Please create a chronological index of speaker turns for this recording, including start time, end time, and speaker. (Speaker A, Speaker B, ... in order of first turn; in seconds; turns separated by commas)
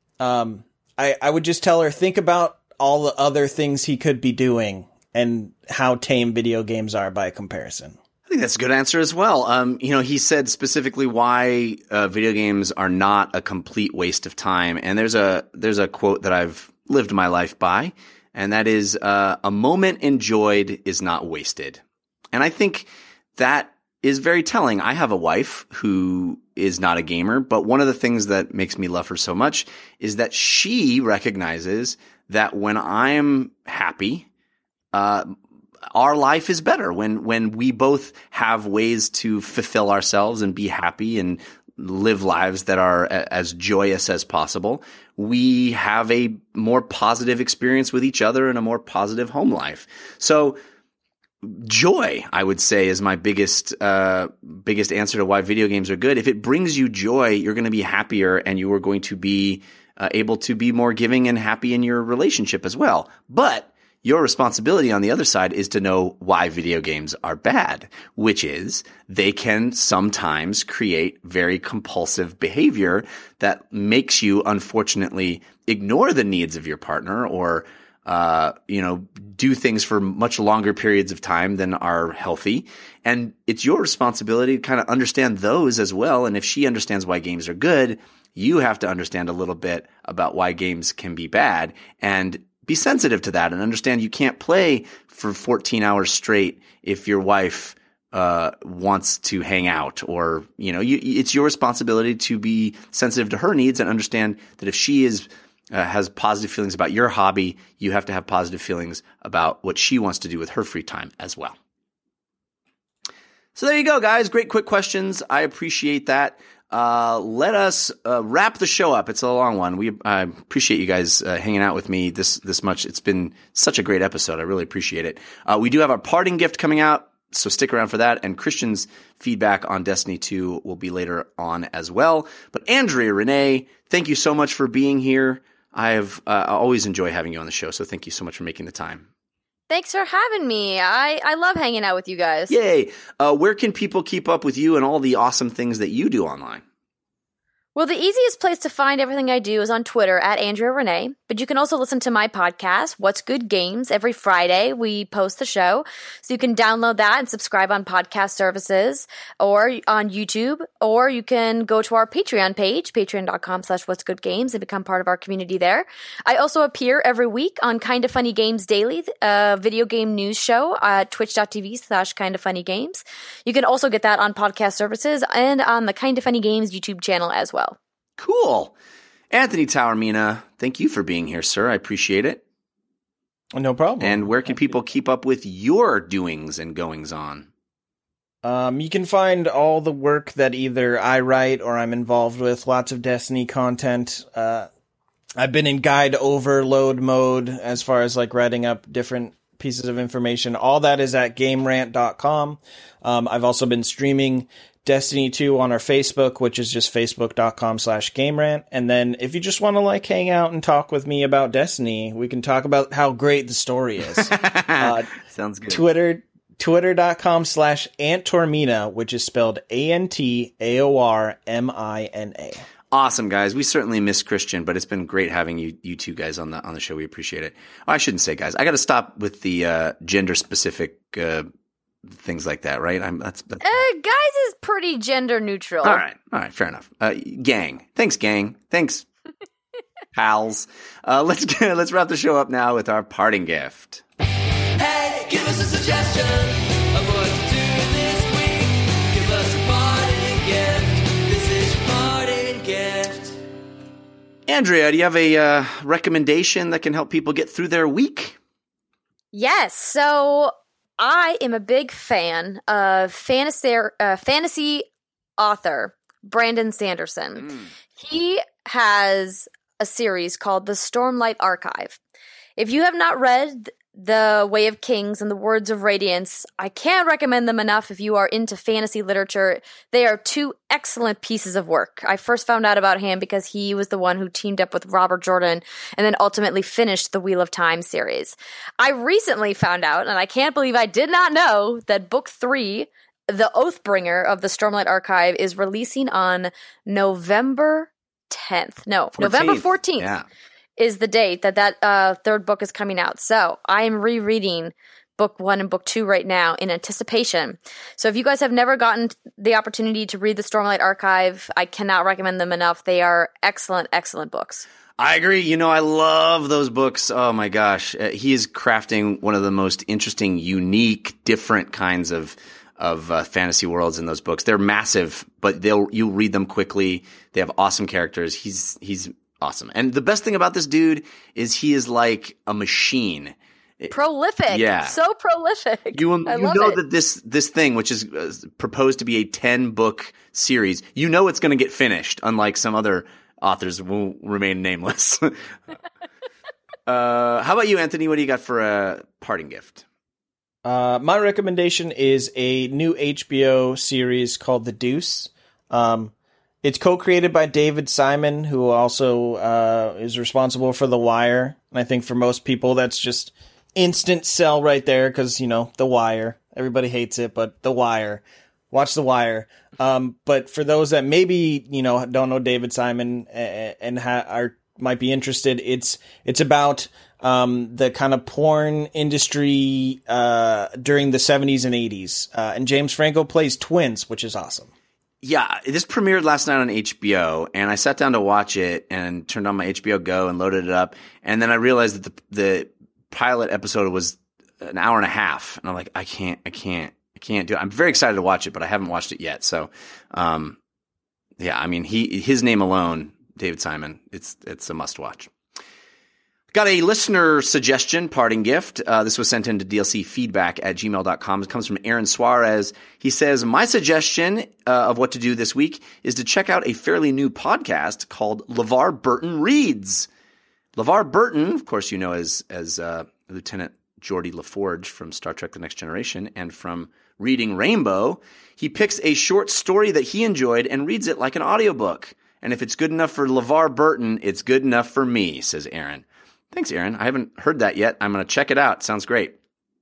Speaker A: 0.2-8.0, Speaker B: 8.3-21.8, Speaker B: 22.3-34.3, Speaker B: 34.9-35.3, Speaker B: 35.9-50.6, Speaker B: 51.4-111.6, Speaker B: 113.6-139.1, Speaker C: 139.7-142.5, Speaker B: 142.5-146.6, Speaker C: 147.8-177.8, Speaker B: 178.2-178.8, Speaker B: 179.3-182.4, Speaker A: 183.5-184.7, Speaker B: 184.0-187.5, Speaker A: 188.4-194.7, Speaker A: 195.4-215.1, Speaker B: 214.2-215.8, Speaker A: 215.7-222.7, Speaker B: 222.9-231.5, Speaker B: 232.1-233.8, Speaker C: 233.6-236.0, Speaker B: 235.8-239.1, Speaker B: 240.1-244.0, Speaker D: 244.8-253.3, Speaker B: 254.5-258.4, Speaker C: 259.3-264.9, Speaker C: 265.4-272.0, Speaker C: 272.6-300.1, Speaker B: 299.2-300.3, Speaker C: 300.8-314.7, Speaker B: 315.0-333.9, Speaker C: 333.9-336.8, Speaker B: 334.5-334.9, Speaker B: 335.9-345.5, Speaker B: 346.9-349.9, Speaker A: 350.6-384.7, Speaker B: 385.2-400.6, Speaker B: 401.4-405.3, Speaker B: 406.5-420.1, Speaker B: 420.8-439.4